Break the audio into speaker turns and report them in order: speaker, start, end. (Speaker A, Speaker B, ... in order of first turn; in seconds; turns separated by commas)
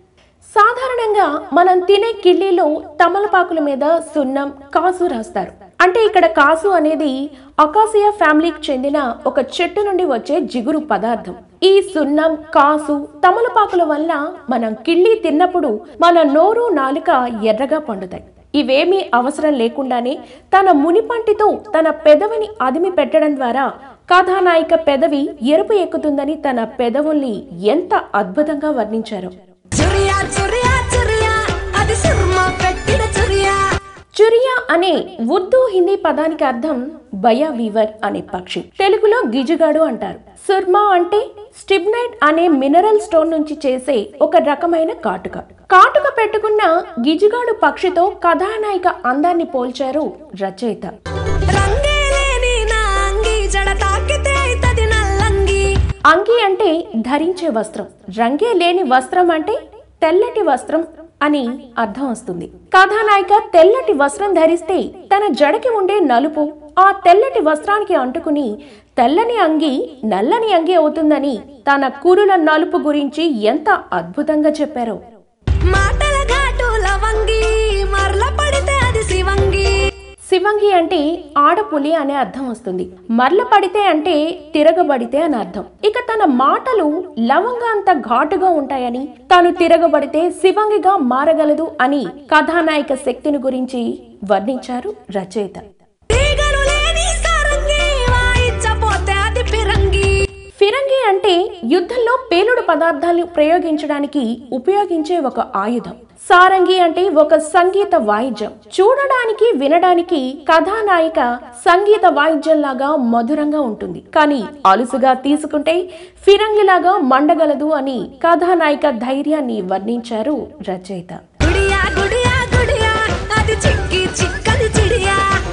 Speaker A: 0.5-29.3, Speaker B: 29.7-33.6, Speaker A: 34.2-50.9, Speaker B: 51.5-55.7, Speaker A: 56.1-75.0, Speaker B: 75.7-79.7, Speaker A: 80.3-95.6, Speaker B: 96.1-100.1, Speaker A: 100.6-121.2, Speaker B: 121.4-125.3